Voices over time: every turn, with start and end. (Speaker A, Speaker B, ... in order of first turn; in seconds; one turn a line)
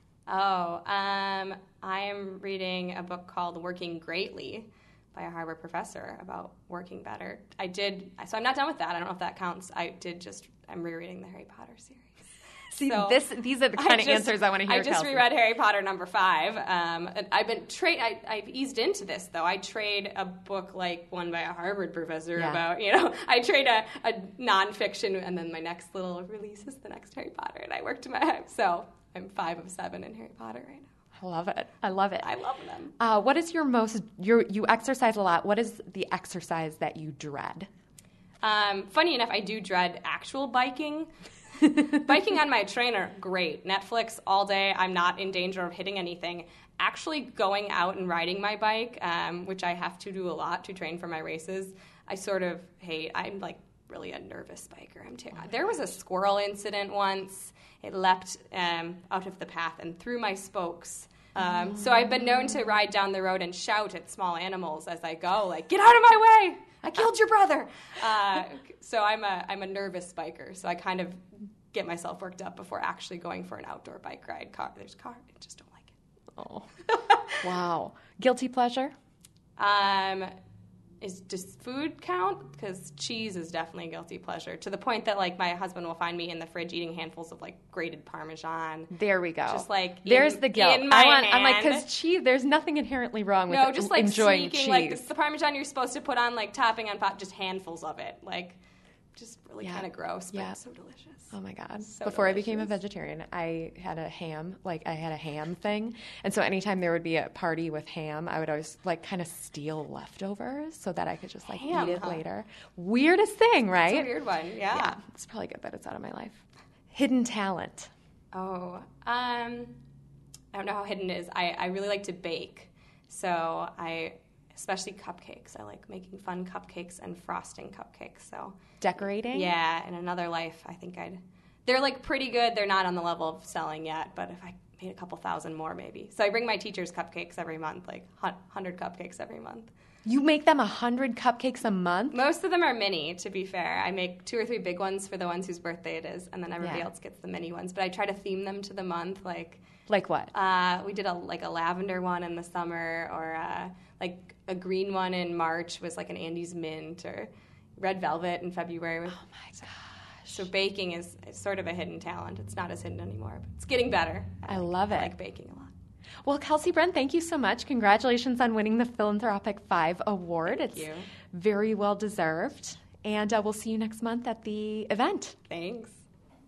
Speaker A: 0.3-13.2
Speaker B: 12.7-15.2
Speaker A: 13.8-30.9
Speaker B: 22.4-22.6
Speaker B: 31.2-32.3
Speaker A: 32.2-32.9
Speaker B: 33.0-37.7
Speaker A: 38.4-41.1
Speaker A: 41.9-75.9
Speaker B: 76.4-76.7
Speaker B: 77.4-78.9
Speaker A: 79.6-80.3
Speaker A: 81.0-88.9
Speaker B: 88.9-95.0
Speaker A: 89.5-91.9
Speaker A: 93.5-98.6
Speaker A: 99.2-102.7
Speaker B: 99.6-100.6
Speaker B: 101.3-114.1
Speaker A: 111.5-112.2
Speaker A: 113.8-115.0
Speaker B: 114.7-117.9
Speaker A: 118.3-119.8
Speaker A: 120.5-128.6
Speaker B: 128.8-129.5
Speaker A: 129.3-139.7
Speaker B: 140.1-142.2
Speaker A: 142.1-149.6
Speaker B: 146.6-146.9
Speaker B: 149.9-150.3
Speaker A: 150.3-159.7
Speaker B: 159.2-160.4
Speaker A: 160.3-165.7
Speaker B: 164.5-165.1
Speaker B: 166.2-175.4
Speaker A: 170.5-171.1
Speaker A: 175.5-176.0